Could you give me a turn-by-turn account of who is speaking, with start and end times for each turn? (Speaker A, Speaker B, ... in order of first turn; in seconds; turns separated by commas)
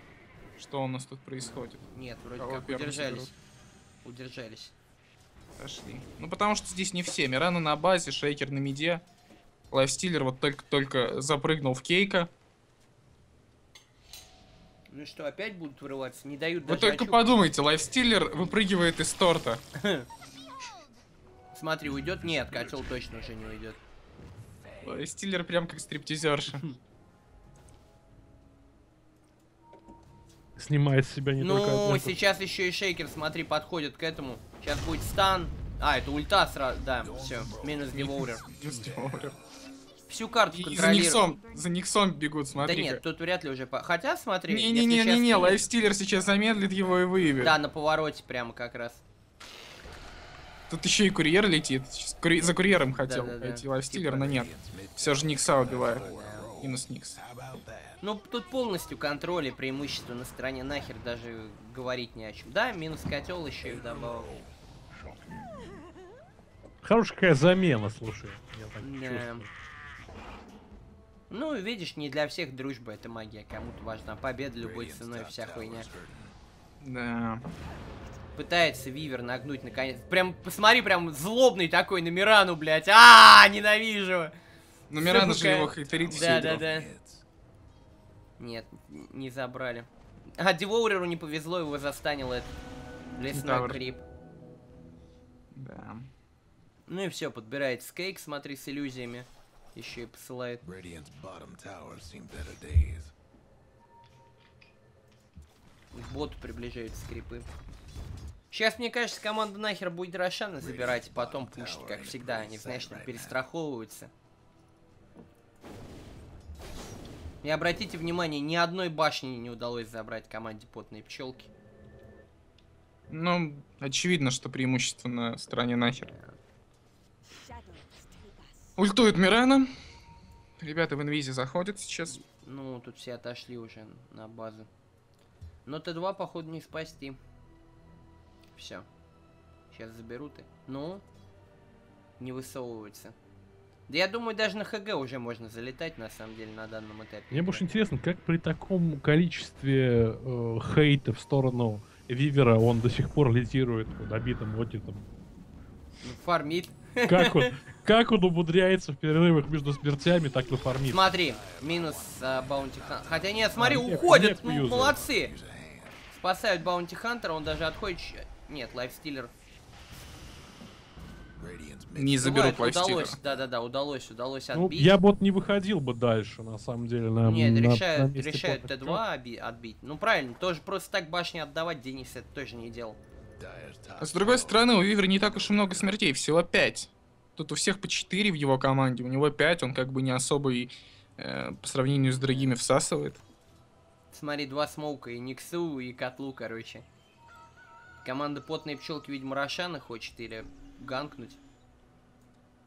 Speaker A: 0.6-1.8, Speaker B: 1.9-3.3, Speaker A: 2.4-3.3, Speaker B: 4.0-4.7, Speaker A: 5.6-9.0, Speaker A: 9.7-12.3, Speaker B: 14.9-17.3, Speaker A: 16.7-19.6, Speaker B: 19.7-20.1, Speaker B: 21.5-23.8, Speaker A: 24.8-26.7, Speaker C: 30.6-32.1, Speaker B: 31.4-38.4, Speaker D: 37.0-39.4, Speaker A: 37.9-39.4, Speaker B: 40.1-41.3, Speaker A: 40.5-43.0, Speaker B: 42.6-45.6, Speaker A: 44.5-47.5, Speaker D: 45.3-47.6, Speaker B: 47.4-49.0, Speaker A: 50.7-56.1, Speaker B: 52.4-54.5, Speaker D: 54.3-58.0, Speaker B: 55.7-56.5, Speaker A: 56.6-57.2, Speaker B: 58.0-64.3, Speaker D: 63.6-64.5, Speaker C: 66.8-69.5, Speaker B: 68.8-69.5, Speaker B: 71.3-75.9, Speaker D: 74.6-76.3, Speaker A: 76.8-77.5, Speaker B: 78.3-84.3, Speaker A: 84.9-86.6, Speaker B: 85.0-86.9, Speaker D: 85.1-87.2, Speaker B: 88.4-92.5, Speaker B: 93.2-94.0, Speaker A: 93.3-93.8, Speaker A: 95.5-96.1, Speaker B: 96.9-100.6, Speaker D: 100.6-103.1, Speaker B: 105.9-107.5, Speaker B: 108.5-114.1, Speaker D: 110.6-113.4, Speaker B: 117.4-121.5, Speaker A: 123.1-126.1, Speaker B: 126.1-126.4, Speaker A: 128.8-129.8, Speaker A: 130.6-132.2, Speaker B: 132.1-134.7, Speaker B: 135.7-137.2, Speaker B: 138.6-138.9, Speaker B: 139.7-141.0, Speaker B: 142.2-143.1, Speaker B: 143.9-147.6, Speaker C: 147.3-155.1, Speaker B: 156.0-157.5, Speaker C: 157.1-161.1, Speaker B: 160.9-165.3, Speaker D: 161.2-164.2, Speaker C: 163.6-164.9, Speaker D: 164.8-166.0, Speaker B: 166.1-169.3, Speaker D: 171.4-173.4, Speaker A: 171.9-173.2, Speaker B: 172.2-174.9, Speaker C: 174.5-179.0, Speaker B: 177.2-183.0, Speaker D: 183.4-185.8, Speaker A: 184.0-193.2, Speaker B: 192.1-192.5, Speaker B: 194.1-196.8, Speaker B: 198.0-201.4